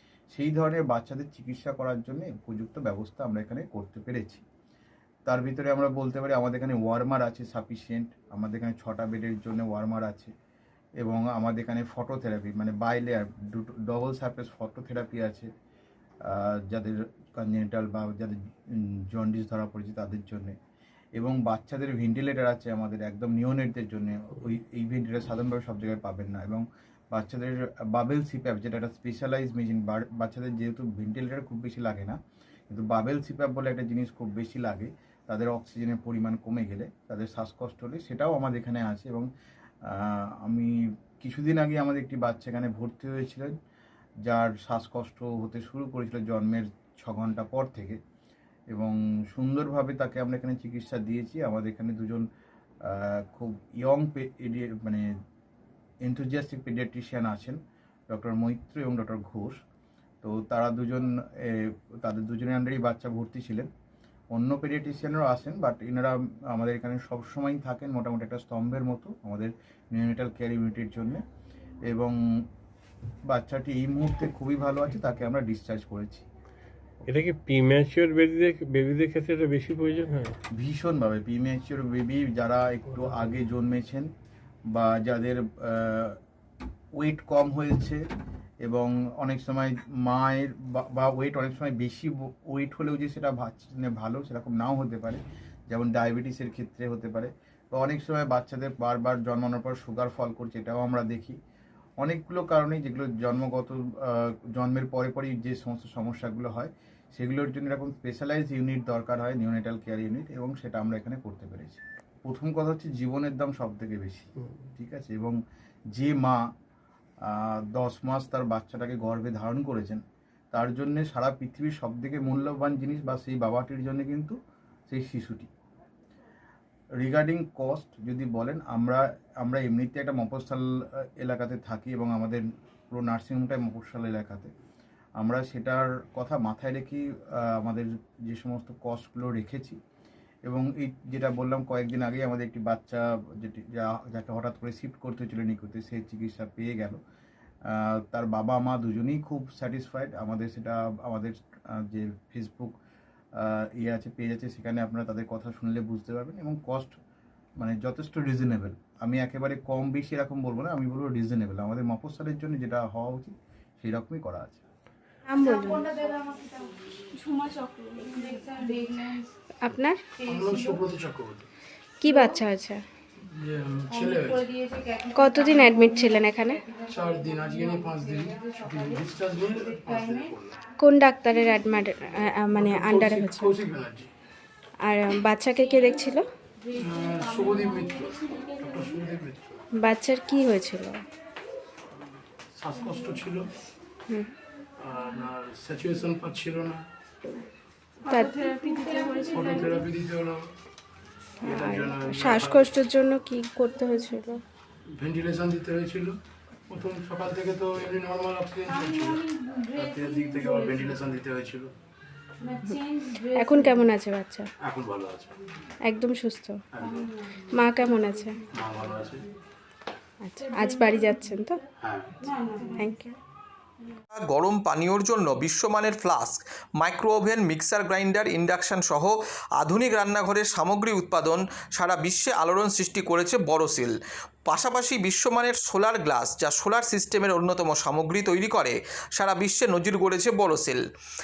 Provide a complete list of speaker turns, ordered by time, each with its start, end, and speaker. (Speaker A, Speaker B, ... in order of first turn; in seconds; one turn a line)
Speaker A: 0.3-4.4
Speaker A: 5.3-10.3
Speaker A: 11.0-15.5
Speaker A: 16.3-20.6
Speaker A: 21.2-32.2
Speaker A: 32.7-39.3
Speaker A: 39.9-43.5
Speaker A: 44.3-48.0
Speaker A: 48.7-52.2
Speaker A: 52.9-55.1
Speaker A: 56.0-57.6
Speaker A: 58.1-59.6
Speaker A: 60.2-63.7
Speaker A: 64.3-71.2
Speaker A: 71.9-72.2
Speaker A: 73.3-76.3
Speaker B: 77.1-80.3
Speaker A: 80.6-84.1
Speaker A: 84.7-86.2
Speaker A: 87.0-88.0
Speaker A: 88.6-101.4
Speaker A: 102.0-115.4
Speaker A: 116.0-116.4
Speaker A: 117.2-124.3
Speaker A: 124.9-125.5
Speaker A: 127.0-130.7
Speaker A: 131.2-134.5
Speaker A: 135.2-139.8
Speaker A: 140.5-147.0
Speaker A: 147.7-152.8
Speaker A: 153.4-157.0
Speaker A: 157.6-164.7
Speaker C: 165.3-165.8
Speaker C: 169.6-170.0
Speaker D: 170.2-171.5
Speaker C: 172.0-172.8
Speaker D: 173.3-174.8
Speaker C: 175.1-176.6
Speaker D: 176.8-180.6
Speaker C: 180.8-183.5
Speaker D: 182.5-184.1
Speaker C: 184.8-186.2
Speaker D: 186.7-189.6
Speaker C: 189.8-191.0
Speaker D: 192.6-193.5
Speaker D: 194.8-196.8
Speaker D: 199.1-200.4
Speaker D: 201.4-202.7
Speaker C: 201.5-204.4
Speaker D: 205.0-206.1
Speaker D: 206.7-211.7
Speaker C: 213.3-214.5
Speaker D: 214.6-215.4
Speaker C: 215.8-216.6
Speaker D: 216.7-217.1
Speaker C: 217.6-218.3
Speaker D: 218.5-219.2
Speaker C: 220.2-221.6
Speaker D: 221.8-222.2
Speaker C: 222.7-223.1
Speaker E: 224.1-240.8